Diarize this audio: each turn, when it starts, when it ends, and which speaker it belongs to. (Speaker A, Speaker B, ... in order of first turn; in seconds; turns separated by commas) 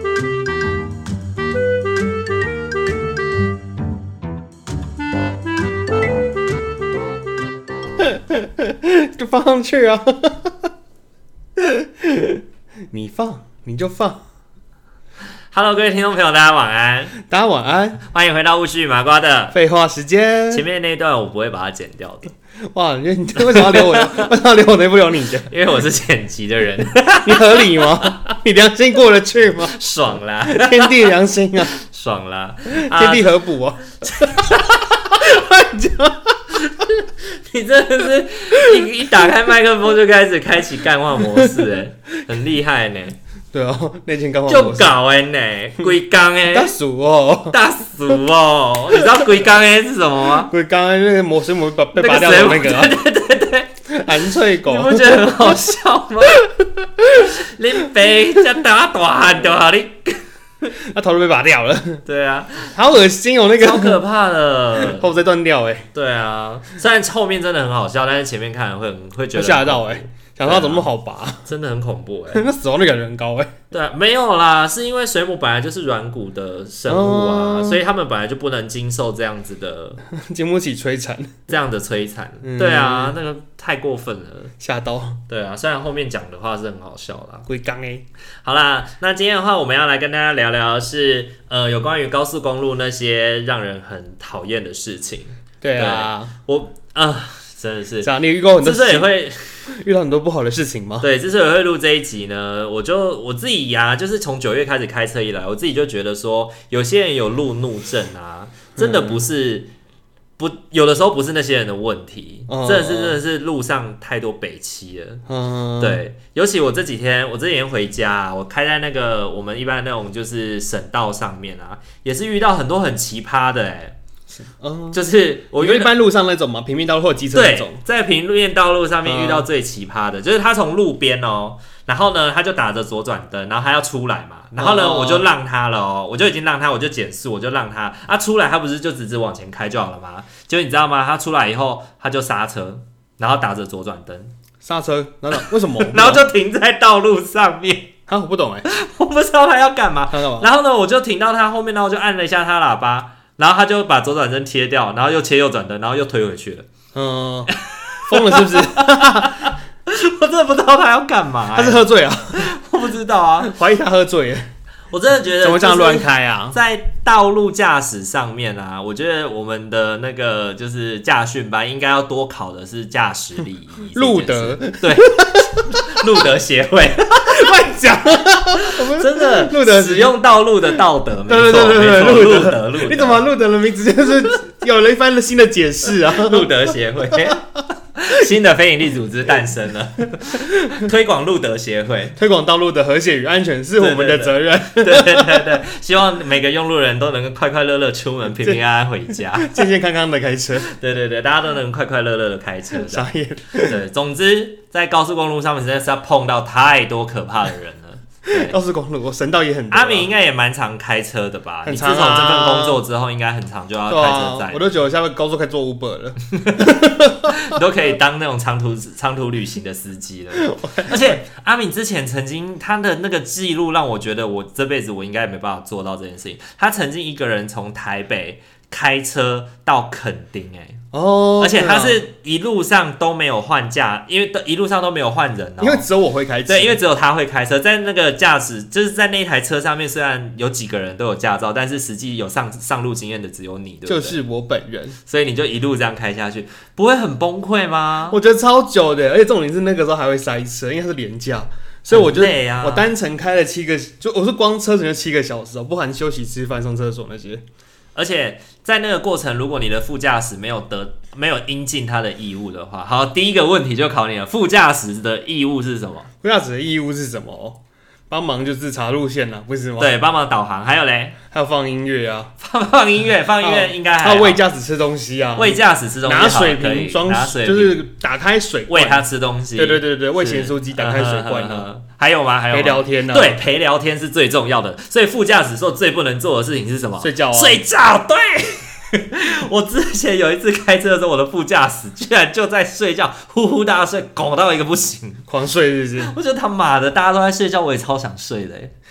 Speaker A: 8.0-10.7, Speaker A: 11.6-14.2, Speaker B: 15.5-17.2, Speaker A: 17.2-18.0, Speaker B: 18.0-19.6, Speaker A: 19.5-20.6, Speaker B: 20.5-22.3, Speaker A: 22.7-25.5, Speaker B: 23.4-24.3, Speaker B: 25.5-28.4, Speaker A: 27.2-29.8, Speaker B: 29.6-31.1, Speaker A: 30.4-31.7, Speaker B: 31.6-33.4, Speaker A: 32.7-36.6, Speaker B: 34.0-35.3, Speaker B: 36.6-43.1, Speaker A: 38.5-38.8, Speaker A: 43.5-44.9, Speaker B: 44.5-46.7, Speaker A: 46.5-47.6, Speaker B: 47.5-50.5, Speaker A: 49.0-49.2, Speaker A: 50.4-53.0, Speaker B: 52.0-53.7, Speaker A: 53.9-55.6, Speaker B: 54.6-56.4, Speaker A: 56.4-57.3, Speaker B: 57.1-60.7, Speaker A: 60.7-62.0, Speaker B: 62.0-62.7, Speaker A: 62.7-64.0, Speaker B: 63.6-65.1, Speaker A: 64.7-65.9, Speaker B: 65.9-70.9, Speaker A: 69.3-71.5, Speaker B: 71.4-72.4, Speaker A: 72.3-73.5, Speaker B: 73.7-80.0, Speaker A: 76.9-77.8, Speaker A: 80.1-81.3, Speaker B: 81.5-84.5, Speaker A: 82.4-83.1, Speaker A: 84.6-85.2, Speaker B: 85.3-87.5, Speaker A: 87.5-88.0, Speaker B: 88.4-99.7, Speaker A: 95.6-96.3, Speaker A: 98.0-99.1, Speaker A: 99.7-101.1, Speaker B: 101.0-109.7, Speaker A: 108.8-109.2, Speaker B: 110.4-115.2, Speaker A: 112.5-113.2, Speaker A: 115.3-116.0, Speaker B: 115.8-124.0, Speaker A: 124.4-125.0, Speaker B: 124.9-125.9, Speaker A: 125.6-127.8, Speaker B: 127.3-144.3, Speaker A: 129.0-129.5, Speaker A: 134.6-135.3, Speaker A: 144.6-146.2, Speaker B: 145.3-147.9, Speaker A: 148.1-148.7, Speaker B: 148.7-156.7, Speaker A: 150.1-150.5, Speaker A: 156.9-157.5, Speaker B: 157.5-163.5, Speaker A: 158.1-159.5, Speaker A: 161.5-162.5, Speaker A: 163.4-164.5, Speaker B: 164.9-177.5, Speaker A: 165.4-166.6, Speaker A: 173.9-176.1, Speaker A: 177.2-180.2, Speaker B: 178.5-183.2, Speaker A: 181.3-187.3, Speaker B: 186.0-192.2, Speaker A: 190.3-190.8, Speaker A: 192.2-195.6, Speaker B: 193.8-199.7, Speaker A: 199.2-200.7, Speaker B: 200.6-203.1, Speaker A: 202.7-203.8, Speaker B: 203.6-208.6, Speaker A: 208.3-210.1, Speaker B: 209.7-214.6, Speaker A: 211.6-212.8, Speaker A: 213.9-217.6, Speaker B: 216.3-230.8, Speaker A: 220.4-221.2, Speaker A: 230.9-232.0, Speaker B: 231.4-235.8, Speaker A: 235.6-236.8, Speaker B: 236.5-244.2, Speaker A: 243.8-245.0, Speaker B: 245.1-248.2, Speaker A: 248.1-257.4, Speaker B: 251.9-252.9, Speaker B: 257.9-266.1, Speaker A: 266.2-267.6, Speaker A: 268.1-269.9, Speaker B: 269.8-271.2, Speaker A: 271.3-272.3, Speaker B: 272.4-274.4, Speaker A: 273.4-281.7, Speaker B: 275.4-277.8, Speaker B: 278.7-295.2, Speaker A: 282.5-283.4, Speaker A: 287.0-287.6, Speaker A: 295.3-296.1, Speaker B: 296.0-298.7